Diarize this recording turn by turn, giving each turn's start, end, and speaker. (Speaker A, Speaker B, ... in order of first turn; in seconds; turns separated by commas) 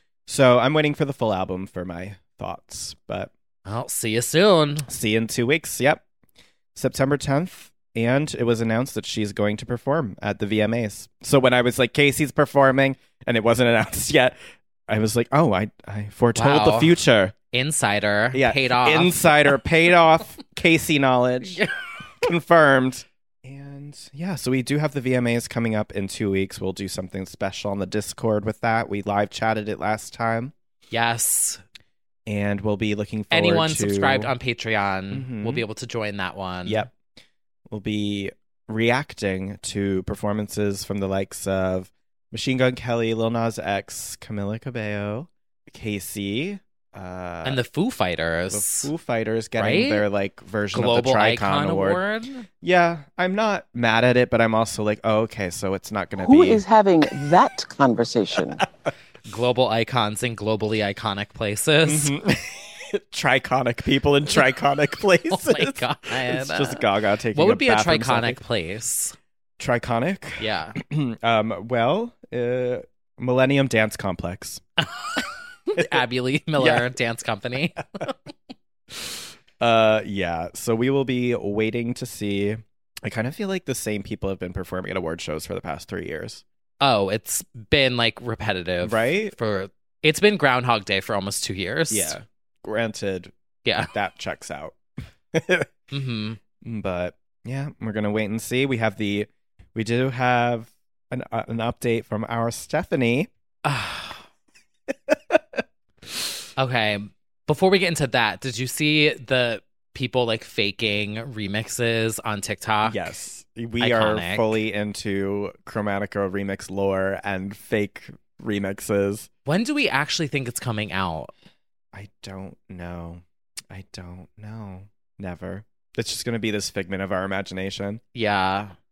Speaker A: 0.3-3.3, Speaker B: 3.6-4.9, Speaker A: 4.9-6.0, Speaker A: 6.7-17.3, Speaker B: 16.4-17.0, Speaker B: 17.5-19.5, Speaker A: 18.3-21.6, Speaker B: 21.4-21.7, Speaker A: 22.2-30.5, Speaker B: 30.9-31.6, Speaker A: 32.3-34.3, Speaker B: 33.3-36.9, Speaker A: 35.1-35.6, Speaker A: 36.6-36.9, Speaker A: 37.7-47.6, Speaker B: 47.4-48.9, Speaker A: 48.5-52.0, Speaker B: 49.6-50.0, Speaker B: 50.7-52.5, Speaker A: 52.6-56.6, Speaker C: 56.1-58.6, Speaker B: 59.3-62.1, Speaker A: 61.8-68.4, Speaker B: 65.3-69.2, Speaker A: 69.6-74.6, Speaker B: 70.4-70.8, Speaker B: 74.8-78.1, Speaker A: 76.6-76.8, Speaker A: 79.6-86.4, Speaker B: 86.8-92.2, Speaker A: 88.8-89.3, Speaker A: 91.9-93.3, Speaker B: 93.6-93.9, Speaker A: 93.8-94.8, Speaker A: 95.3-95.7, Speaker B: 95.9-96.4, Speaker A: 96.6-103.3, Speaker B: 103.6-104.2, Speaker A: 105.1-105.6, Speaker B: 106.6-113.1, Speaker A: 112.8-119.3, Speaker B: 113.8-114.6, Speaker B: 119.5-121.3, Speaker A: 121.9-128.0, Speaker B: 128.1-128.7